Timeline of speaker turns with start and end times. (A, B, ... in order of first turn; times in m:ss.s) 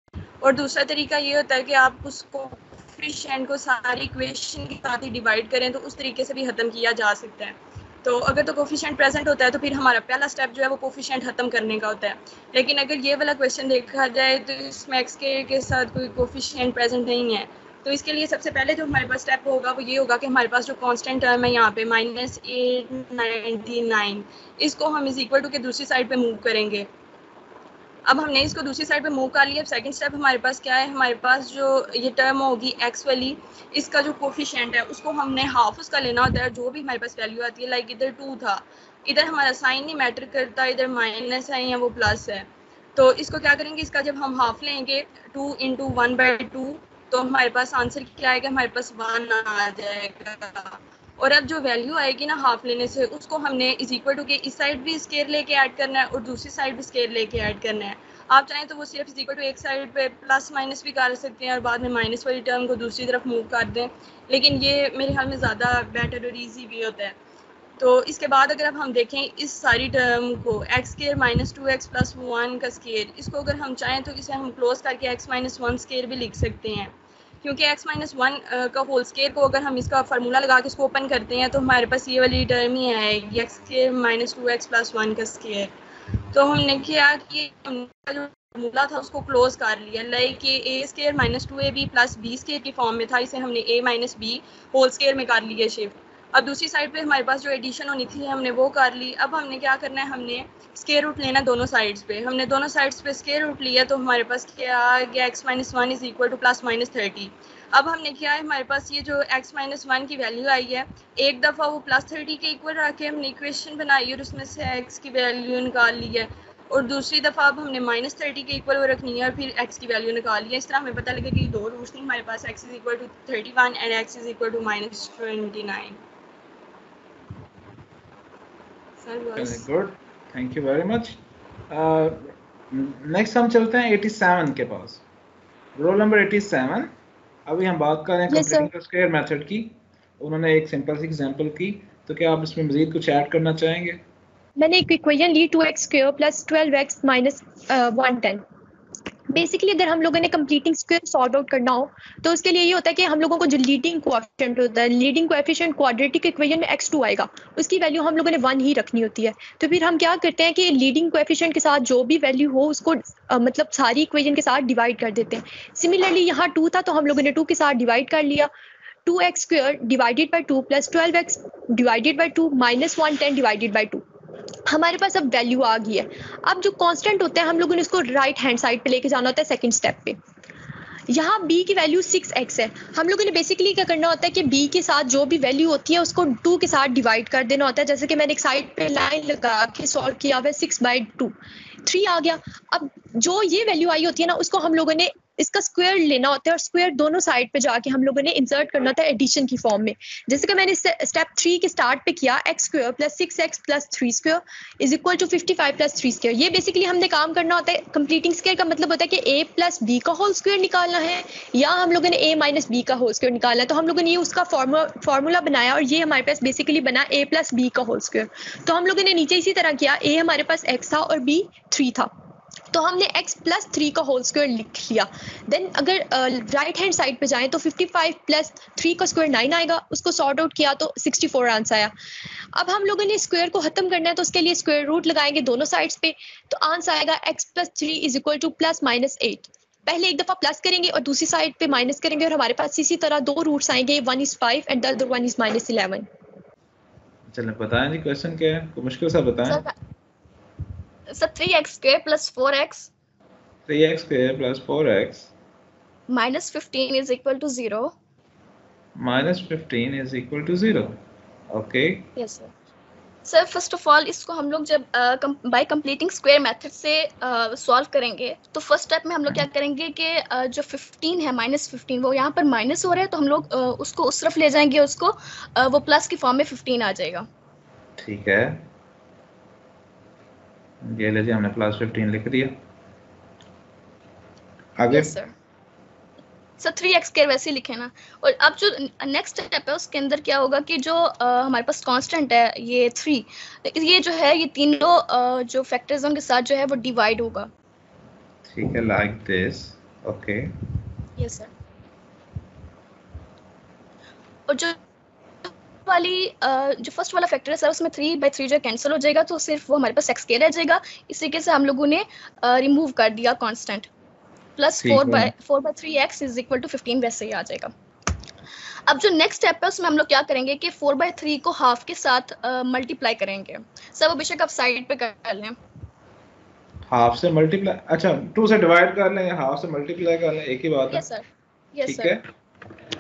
0:00.4-0:26.9 A
0:28.0-1:07.2 A
1:07.8-1:25.7 A
1:26.3-2:06.0 A
2:09.0-2:09.6 A
2:09.4-2:15.0 B
2:15.8-2:16.9 B
2:17.5-2:24.0 B
2:18.3-2:18.7 C
2:24.6-2:28.4 C
2:29.3-2:48.5 C
2:49.0-2:54.0 C
2:54.7-3:00.2 C
3:01.1-3:11.3 C
3:11.8-3:42.1 C
3:42.7-3:51.9 C
3:52.6-4:06.1 C
4:07.3-4:09.6 B
4:09.5-4:09.7 D
4:11.1-4:12.9 D
4:13.7-4:15.3 B
4:16.1-4:17.9 D
4:19.0-4:21.0 B
4:21.5-4:22.1 B
4:22.2-4:22.5 D
4:23.2-4:37.2 D
4:38.0-4:38.6 B
4:40.8-4:42.6 B
4:44.8-4:45.2 B
4:44.9-4:45.3 D
4:46.6-4:57.5 D
4:58.4-5:00.5 B
5:01.2-5:01.5 D
5:04.5-5:04.8 D
5:05.4-5:13.9 D
5:14.6-5:17.7 D
5:14.8-5:15.3 B
5:18.9-5:25.6 D
5:26.9-5:31.1 B
5:30.9-5:32.2 D
5:31.8-5:32.2 B